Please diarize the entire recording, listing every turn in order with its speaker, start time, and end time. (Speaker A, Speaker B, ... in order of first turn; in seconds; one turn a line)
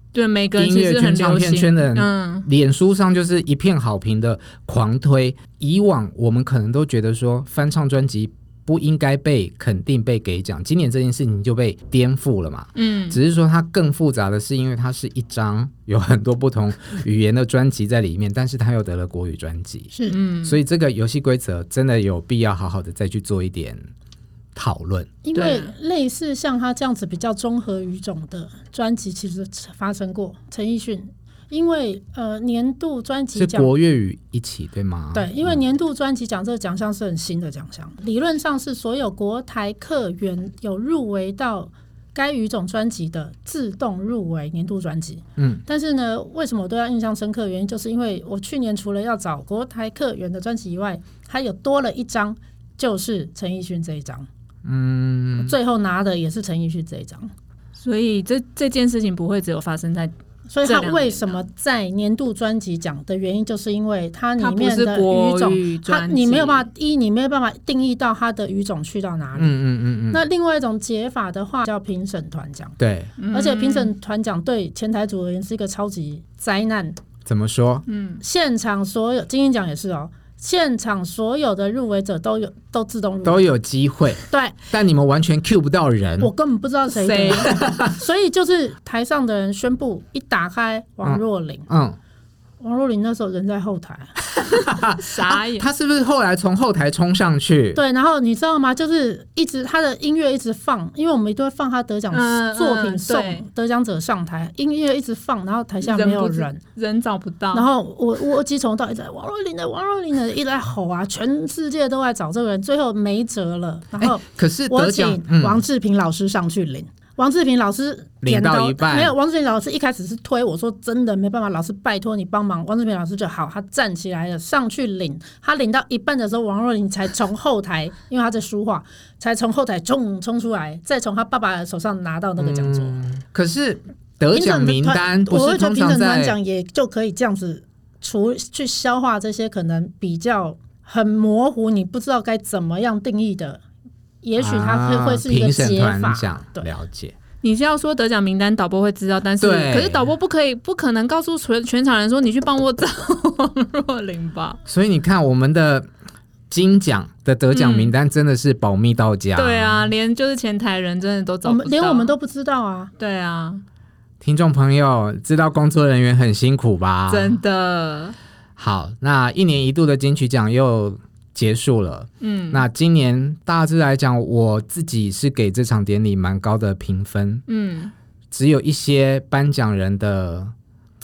Speaker A: 0.1-2.5
Speaker B: 0.6-19.9
Speaker A: 12.8-13.2
Speaker A: 20.1-20.6
Speaker B: 20.4-23.9
Speaker B: 24.5-25.1
Speaker C: 25.2-33.7
Speaker A: 25.3-25.7
Speaker B: 33.4-35.6
Speaker C: 35.1-54.3
Speaker B: 45.4-45.6
Speaker B: 54.6-55.5
Speaker C: 55.4-57.3
Speaker A: 57.8-61.4
Speaker C: 60.5-69.5
Speaker A: 64.4-66.7
Speaker B: 69.4-70.2
Speaker C: 70.1-72.8
Speaker B: 72.8-73.1
Speaker A: 73.2-73.9
Speaker C: 73.3-77.0
Speaker B: 77.2-77.8
Speaker A: 77.9-78.2
Speaker C: 78.2-83.4
Speaker B: 83.2-86.3
Speaker C: 84.2-84.6
Speaker C: 86.2-91.7
Speaker A: 87.0-87.6
Speaker B: 87.5-87.9
Speaker B: 91.0-92.0
Speaker C: 92.6-94.1
Speaker B: 94.4-97.8
Speaker A: 95.0-95.7
Speaker C: 97.7-106.6
Speaker A: 102.1-103.5
Speaker A: 105.8-107.7
Speaker C: 107.5-133.0
Speaker B: 114.0-115.6
Speaker B: 118.2-119.1
Speaker B: 132.4-136.3
Speaker C: 134.3-143.6
Speaker C: 144.2-146.7
Speaker B: 144.4-147.2
Speaker A: 147.4-154.6
Speaker B: 149.4-150.1
Speaker B: 154.7-155.9
Speaker B: 156.5-159.9
Speaker A: 157.5-157.9
Speaker A: 159.3-162.1
Speaker C: 161.4-162.9
Speaker A: 163.0-163.6
Speaker B: 164.2-167.4
Speaker A: 167.1-168.2
Speaker B: 168.6-177.4
Speaker A: 172.2-172.6
Speaker A: 177.5-177.9
Speaker B: 178.3-180.5